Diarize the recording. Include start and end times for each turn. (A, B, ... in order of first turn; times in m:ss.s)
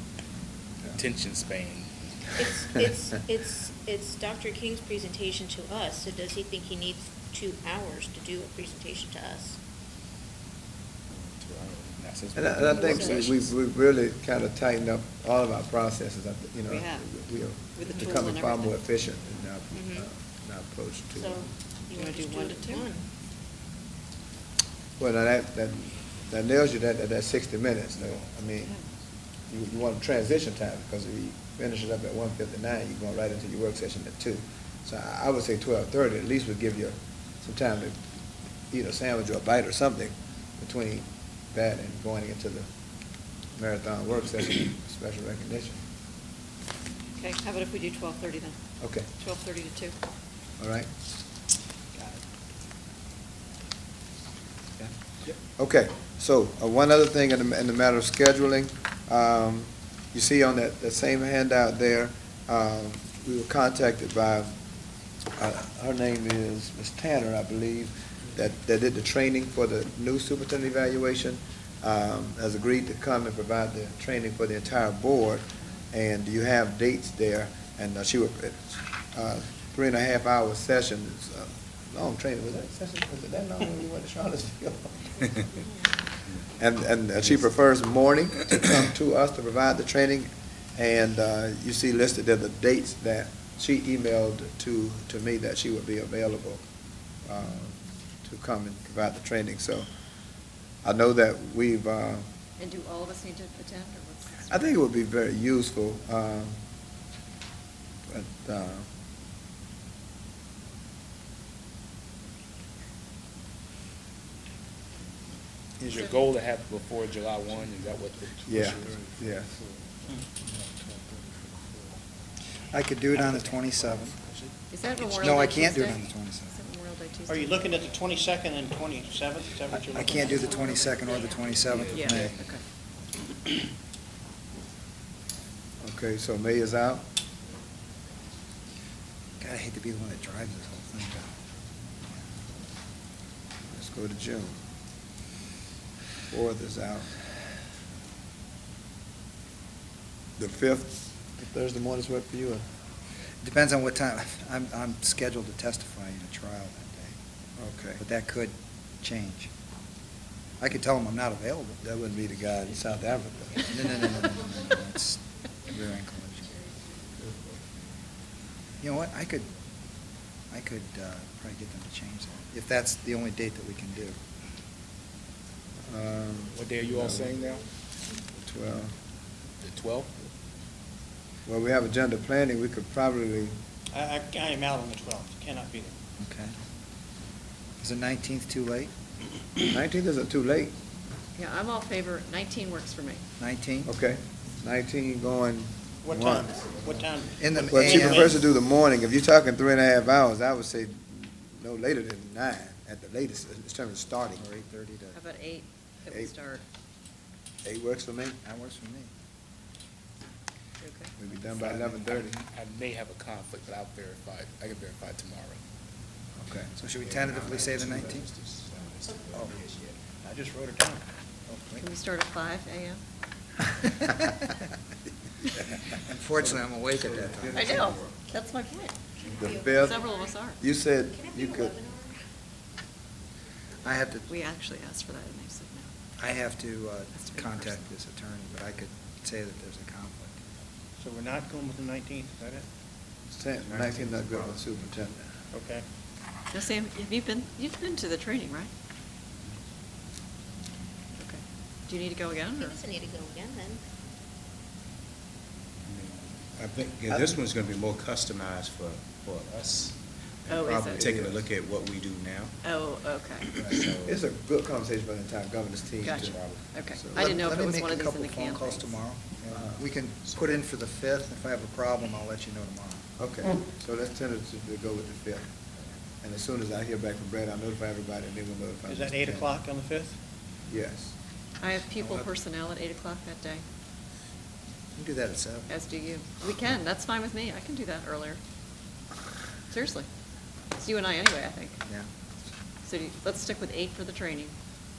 0:00.9-0:01.9 A
0:02.4-0:09.6 B
0:11.3-0:13.5 A
0:12.3-0:21.5 C
0:12.7-0:13.2 B
0:16.7-0:17.1 D
0:17.6-0:18.8 D
0:19.7-0:20.0 B
0:21.2-0:23.0 B
0:22.0-0:22.9 D
0:25.0-0:28.7 C
0:29.5-0:38.1 C
0:38.7-0:42.7 C
0:43.5-0:45.8 C
0:47.2-0:48.6 D
0:48.8-0:49.1 C
0:49.2-0:50.0 D
0:50.6-0:50.9 C
0:55.4-1:04.5 C
1:05.4-1:25.5 C
1:25.6-1:25.8 B
1:26.6-1:36.6 C
1:37.2-1:39.9 C
1:40.8-1:42.3 C
1:42.6-1:44.8 D
1:44.5-1:46.6 C
1:48.1-1:48.9 C
1:55.8-1:59.0 A
1:56.0-1:56.2 D
1:58.5-1:59.5 C
2:02.7-2:04.2 E
2:04.7-2:08.0 D
2:05.0-2:06.5 E
2:07.3-2:10.7 F
2:09.7-2:12.4 E
2:10.4-2:11.3 B
2:11.5-2:12.6 A
2:11.9-2:12.6 D
2:15.8-2:17.0 C
2:19.4-2:21.4 E
2:23.7-2:24.5 C
2:26.3-2:27.1 C
2:30.4-2:32.6 C
2:33.4-2:37.1 E
2:37.6-2:38.0 C
2:38.0-2:39.5 E
2:40.6-2:41.8 E
2:41.8-2:43.7 C
2:43.7-2:46.5 E
2:48.8-2:49.5 E
2:50.5-2:54.2 E
2:55.9-2:57.3 C
2:56.5-2:57.6 A
2:58.4-2:58.9 C
2:59.6-3:00.1 A
3:01.4-3:03.5 C
3:03.9-3:06.0 F
3:06.2-3:06.5 E
3:07.8-3:08.9 E
3:09.7-3:10.7 C
3:11.4-3:13.2 D
3:13.4-3:13.9 E
3:13.8-3:16.5 C
3:16.0-3:18.4 F
3:17.4-3:18.3 E
3:17.6-3:24.4 C
3:24.4-3:25.2 E
3:25.1-3:26.6 D
3:27.6-3:28.4 C
3:28.4-3:29.1 E
3:30.8-3:31.1 D
3:31.2-3:32.3 C
3:31.5-3:35.6 A
3:36.4-3:38.3 E
3:37.0-3:40.0 G
3:40.2-3:41.0 F
3:41.5-3:41.8 E
3:41.8-3:43.0 D
3:43.8-3:44.5 E
3:46.0-3:47.9 E
3:47.4-3:48.0 C
3:47.6-3:49.0 D
3:49.3-3:50.3 B
3:49.3-3:50.0 C
3:49.8-3:50.6 D
3:50.6-3:51.8 C
3:51.1-3:52.2 B
3:53.8-3:54.3 E
3:54.3-3:55.9 D
3:56.2-4:00.4 E
3:57.2-3:57.8 D
4:01.0-4:02.7 F
4:03.3-4:05.2 C
4:03.6-4:04.8 G
4:05.5-4:05.8 F
4:06.5-4:08.7 D
4:11.2-4:12.8 D
4:12.6-4:13.8 B
4:15.9-4:22.6 G
4:17.1-4:17.4 C
4:20.5-4:21.1 D
4:21.0-4:21.4 C
4:22.6-4:23.7 D
4:23.6-4:24.2 G
4:24.1-4:27.2 C
4:26.0-4:26.6 G
4:26.0-4:29.0 D
4:27.1-4:33.1 E
4:29.5-4:29.8 C
4:33.2-4:35.5 C
4:36.2-4:39.5 C
4:38.9-4:40.2 F
4:40.7-4:41.2 C
4:41.6-4:43.6 D
4:41.9-4:42.3 E
4:45.0-4:45.7 E
4:45.7-4:48.4 D
4:49.7-4:50.1 D
4:50.8-4:51.8 D
4:52.8-4:54.5 D